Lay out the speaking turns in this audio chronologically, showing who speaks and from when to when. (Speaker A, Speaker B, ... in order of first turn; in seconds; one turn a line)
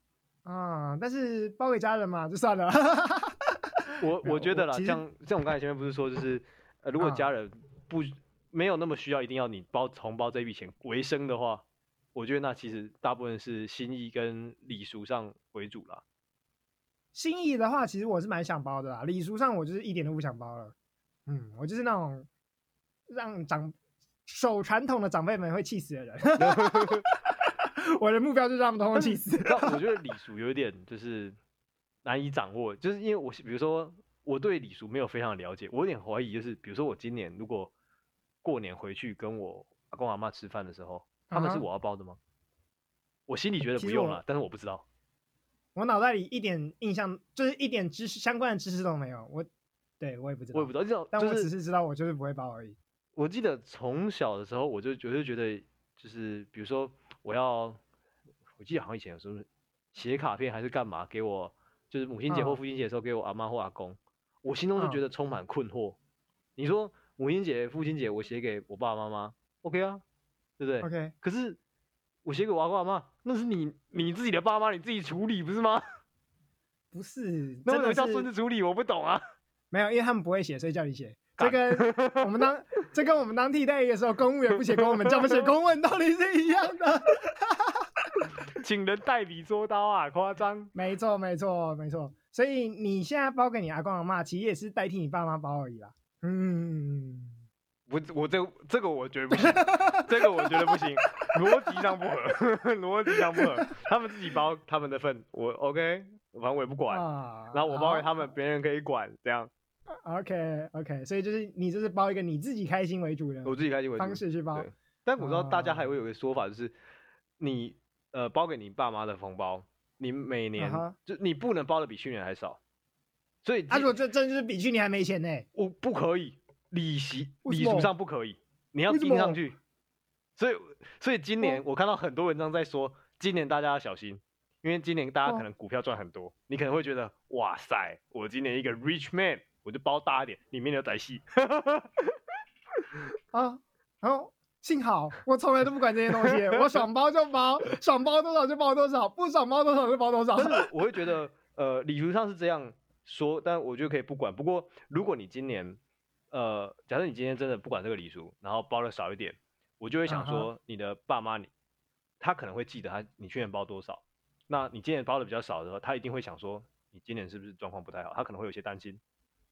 Speaker A: 0.5-5.0
Speaker B: 4.0-11.6
Speaker A: 7.0-7.3
Speaker B: 12.2-16.0
Speaker A: 17.1-20.8
Speaker A: 21.3-22.3
Speaker A: 23.1-23.8
Speaker A: 24.3-27.2
Speaker B: 26.4-27.0
Speaker A: 27.9-29.9
Speaker B: 28.9-31.4
Speaker B: 32.0-37.7
Speaker B: 38.4-42.2
Speaker A: 41.3-41.6
Speaker B: 43.3-44.8
Speaker A: 43.6-44.2
Speaker A: 45.8-49.5
Speaker A: 50.0-52.8
Speaker B: 50.5-51.5
Speaker B: 53.2-57.8
Speaker B: 58.6-66.0
Speaker A: 62.3-62.6
Speaker B: 66.6-70.0
Speaker B: 70.6-71.6
Speaker A: 70.8-71.1
Speaker B: 72.2-75.8
Speaker A: 76.9-78.3
Speaker B: 77.7-79.2
Speaker A: 79.7-87.8
Speaker B: 81.4-82.3
Speaker B: 85.0-85.5
Speaker B: 88.5-90.7
Speaker A: 90.7-97.4
Speaker B: 97.9-109.5
Speaker A: 99.3-100.5
Speaker A: 103.3-103.6
Speaker A: 106.9-108.3
Speaker A: 110.0-114.7
Speaker B: 113.5-116.7
Speaker A: 115.2-115.9
Speaker B: 117.4-122.6
Speaker A: 120.6-121.0
Speaker B: 123.4-124.0
Speaker A: 123.7-125.5
Speaker B: 125.5-129.6
Speaker A: 127.5-127.9
Speaker A: 128.9-129.4
Speaker B: 130.4-142.1
Speaker A: 143.3-150.7
Speaker B: 150.4-155.8
Speaker B: 156.3-161.5
Speaker A: 160.1-160.5
Speaker B: 162.2-169.0